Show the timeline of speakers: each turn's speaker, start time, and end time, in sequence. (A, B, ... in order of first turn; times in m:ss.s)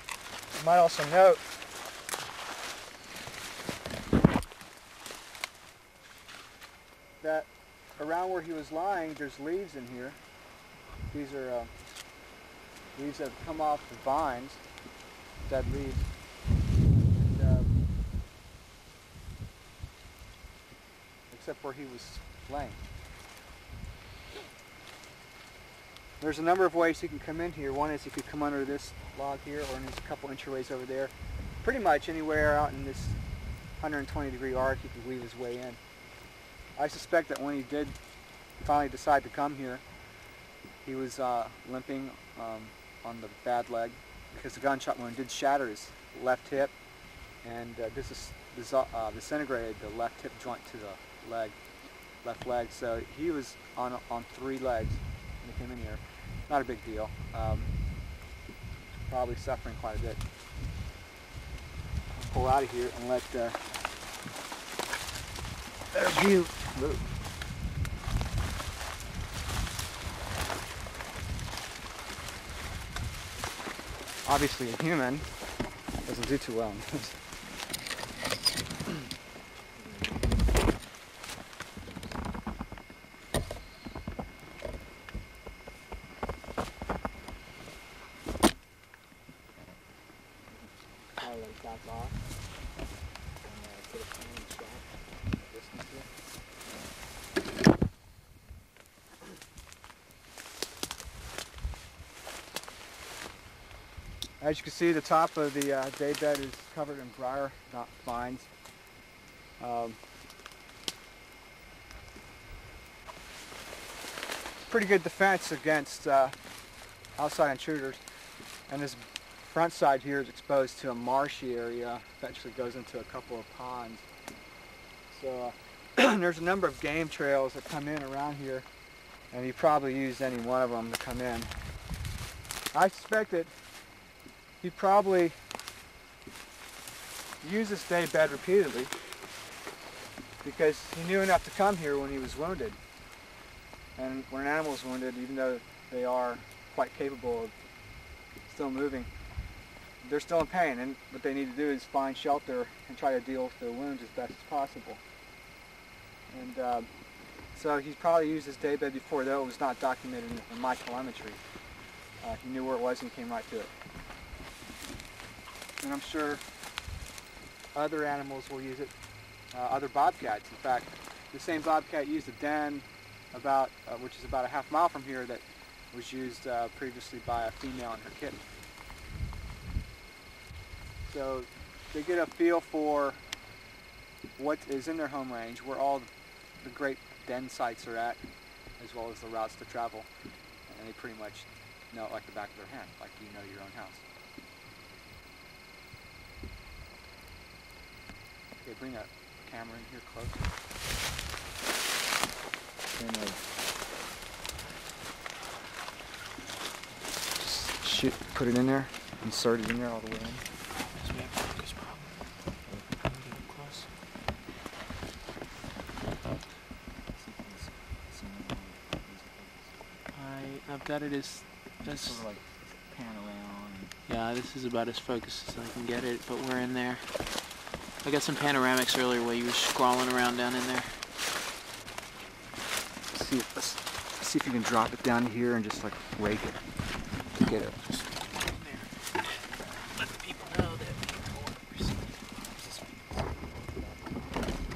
0:00.6-0:01.4 A
0:07.2-0:10.2 A
0:11.1-0:11.7 A
0:13.0-0:14.6 A
0:15.4-0:16.0 A
0:17.1-0:17.7 A
0:21.3-0:22.8 A
0:26.2-0:33.2 A
0:33.8-0:35.8 A
0:36.8-0:38.0 A
0:38.6-0:39.8 A
0:40.8-0:46.7 A
0:47.4-0:51.5 A
0:52.2-0:57.7 A
0:59.1-1:00.2 A
1:02.2-1:03.6 A
1:05.9-1:07.1 A
1:14.2-1:15.3 A
1:16.0-1:17.2 A
1:31.2-1:32.1 B
1:33.4-1:34.9 B
1:35.4-1:36.0 B
1:44.4-1:48.5 A
1:49.6-1:50.0 A
1:54.7-1:56.3 A
1:57.2-1:58.0 A
1:58.7-2:04.1 A
2:05.1-2:08.7 A
2:09.3-2:11.5 A
2:12.7-2:13.5 A
2:14.6-2:15.3 A
2:17.4-2:18.9 A
2:20.4-2:22.8 A
2:24.0-2:27.5 A
2:28.5-2:29.1 A
2:30.0-2:35.0 A
2:36.3-2:36.9 A
2:37.5-2:41.4 A
2:42.2-2:43.7 A
2:45.8-2:46.4 A
2:47.7-2:48.9 A
2:49.5-2:58.4 A
3:01.0-3:03.2 A
3:04.4-3:06.1 A
3:06.6-3:08.2 A
3:08.8-3:10.1 A
3:10.7-3:14.0 A
3:18.6-3:20.4 A
3:23.0-3:23.4 B
3:27.4-3:30.4 A
3:30.9-3:32.2 C
3:33.0-3:33.9 C
3:37.1-3:40.1 B
3:40.1-3:42.3 C
3:41.8-3:44.0 B
3:44.0-3:47.3 C
3:48.0-3:51.0 C
3:53.1-3:56.6 A
3:57.4-3:57.9 A
3:57.9-4:02.4 C
4:02.6-4:04.0 A